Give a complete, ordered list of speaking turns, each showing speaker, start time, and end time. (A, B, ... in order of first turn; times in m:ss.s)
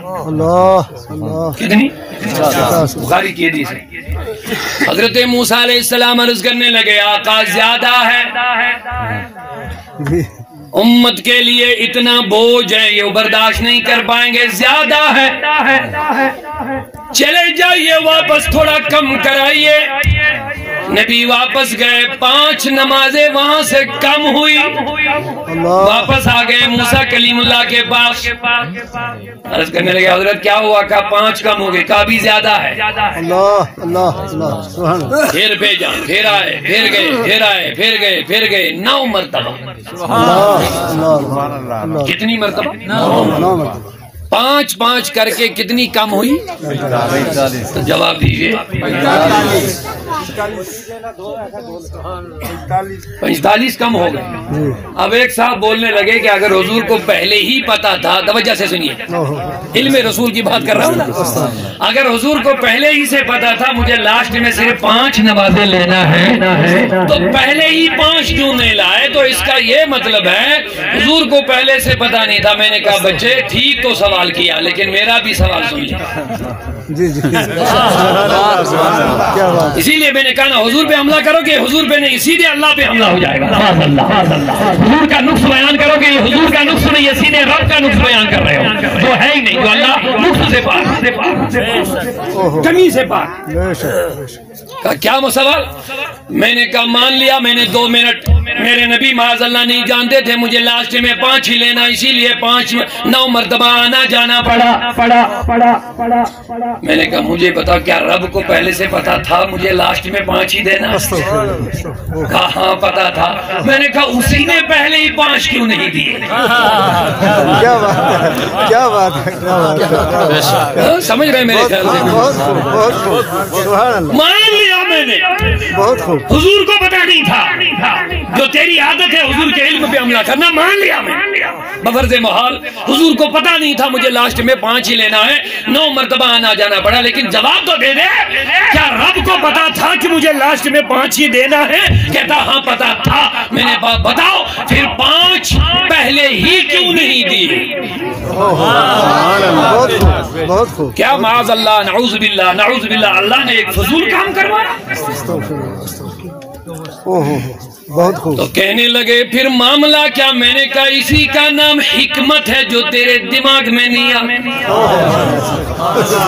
0:00.2-0:01.6 A
0:01.6-0:03.8 B
0:02.5-0:03.0 A
0:04.6-0:08.5 B
0:10.0-0:10.3 A
0:10.7-0:16.3 B
0:17.1-0:20.0 B
0:20.9-0:25.1 B
0:25.5-0:26.1 A
0:25.8-0:28.5 B
0:29.5-0:32.8 B
0:33.2-0:35.2 A
0:35.2-0:39.6 B
0:40.1-0:42.1 A
0:42.0-0:43.2 B
0:43.2-0:43.9 A
0:44.3-0:46.4 B
0:46.6-0:47.4 A
0:47.5-0:49.6 B
0:53.2-0:59.1 B
0:54.5-0:54.8 A
0:59.1-0:59.7 A
0:59.7-1:16.1 B
1:01.1-1:01.5 A
1:16.9-1:19.8 A
1:19.7-1:33.4 B
1:32.3-1:32.7 A
1:33.5-1:34.4 A
1:34.8-1:35.7 B
1:36.3-1:51.3 B
1:51.0-1:52.3 A
1:52.2-1:56.6 B
1:57.2-2:00.8 A
2:00.7-2:02.6 B
2:01.5-2:04.2 A
2:04.1-2:27.8 B
2:05.7-2:06.3 A
2:28.3-2:31.1 A
2:30.9-2:34.8 B
2:35.1-2:36.1 A
2:37.0-2:38.4 A
2:38.4-2:45.0 B
2:44.7-2:45.4 A